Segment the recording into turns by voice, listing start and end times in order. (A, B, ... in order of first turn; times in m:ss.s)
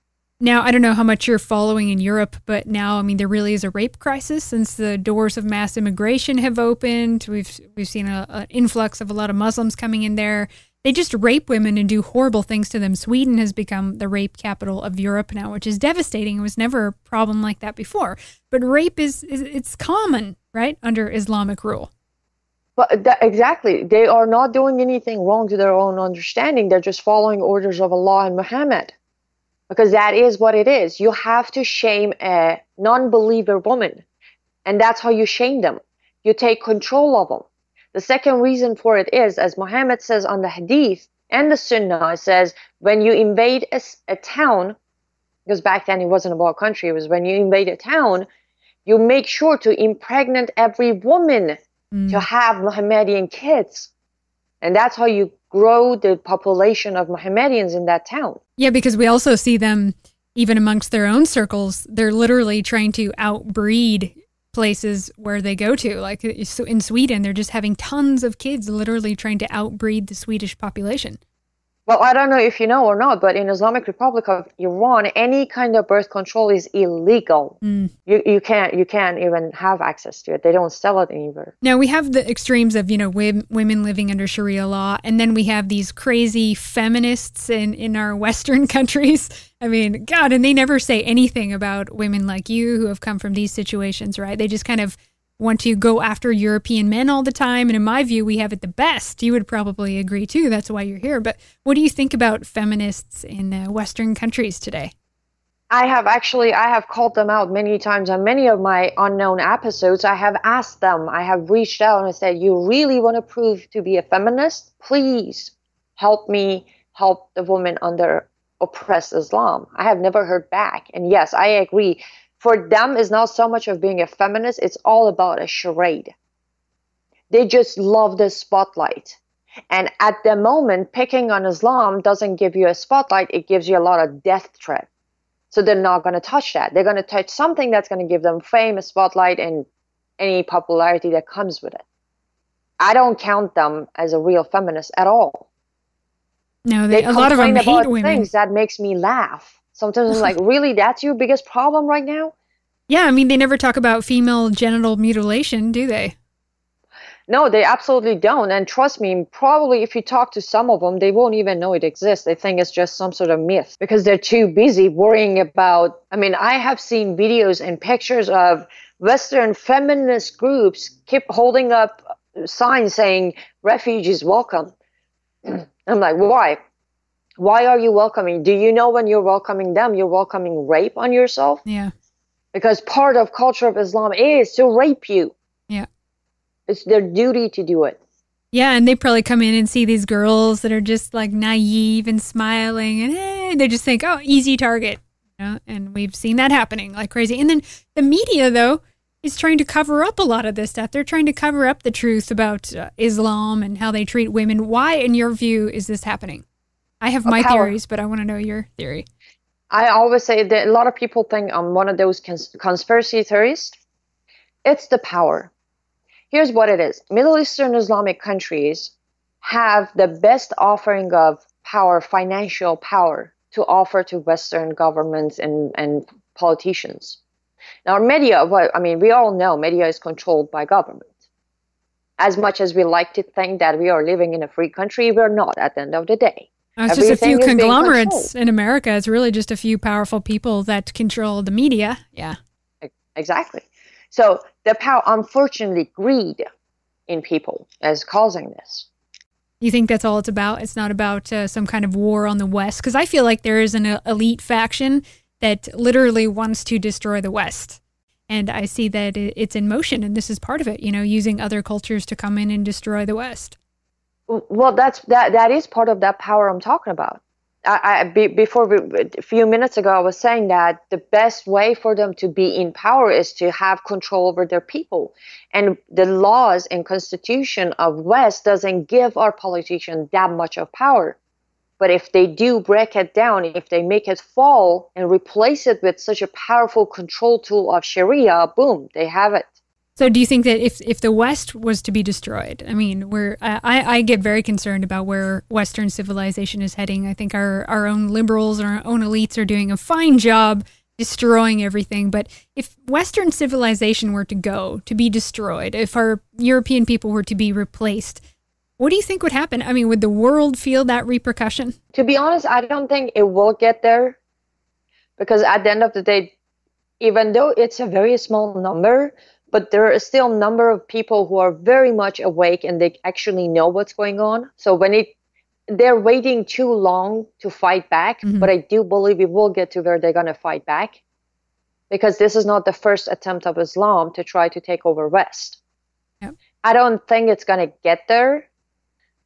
0:00.4-0:21.9 A
0:22.8-0:28.9 B
0:29.7-0:34.0 B
0:34.6-0:44.8 B
0:45.5-0:48.3 B
0:48.8-0:51.6 B
0:51.9-0:52.2 A
0:52.1-0:53.9 B
0:54.6-0:58.4 B
0:58.6-1:11.2 A
1:11.9-1:17.6 B
1:17.6-1:17.9 A
1:18.1-1:21.5 B
1:21.6-1:44.9 A
1:45.7-2:06.1 B
2:07.3-2:09.2 B
2:09.7-2:14.9 B
2:15.5-2:19.7 B
2:20.2-2:21.8 B
2:22.8-2:25.4 B
2:26.6-2:28.3 A
2:26.9-2:32.3 B
2:32.9-2:36.1 A
2:37.3-2:54.7 B
2:55.4-2:56.6 B
2:57.4-3:01.6 B
3:01.6-3:01.9 A
3:02.5-3:05.3 B
3:06.7-3:08.0 B
3:08.5-3:26.4 A
3:27.0-3:29.0 A
3:27.2-3:27.7 B
3:29.7-3:33.8 B
3:34.6-3:35.5 B
3:36.3-3:47.2 B
3:47.8-3:51.1 B
3:52.2-3:58.3 B
3:56.8-4:02.4 A
4:02.8-4:06.4 B
4:07.1-4:08.9 B
4:09.6-4:23.6 A
4:24.3-4:41.2 B
4:41.8-4:49.5 B
4:50.0-5:08.2 A
5:08.8-5:11.8 A
5:11.9-5:14.2 B
5:15.2-5:16.3 B
5:17.0-5:25.1 B
5:25.7-5:31.0 B
5:28.2-5:28.5 A
5:31.9-5:35.6 B
5:36.6-5:38.5 B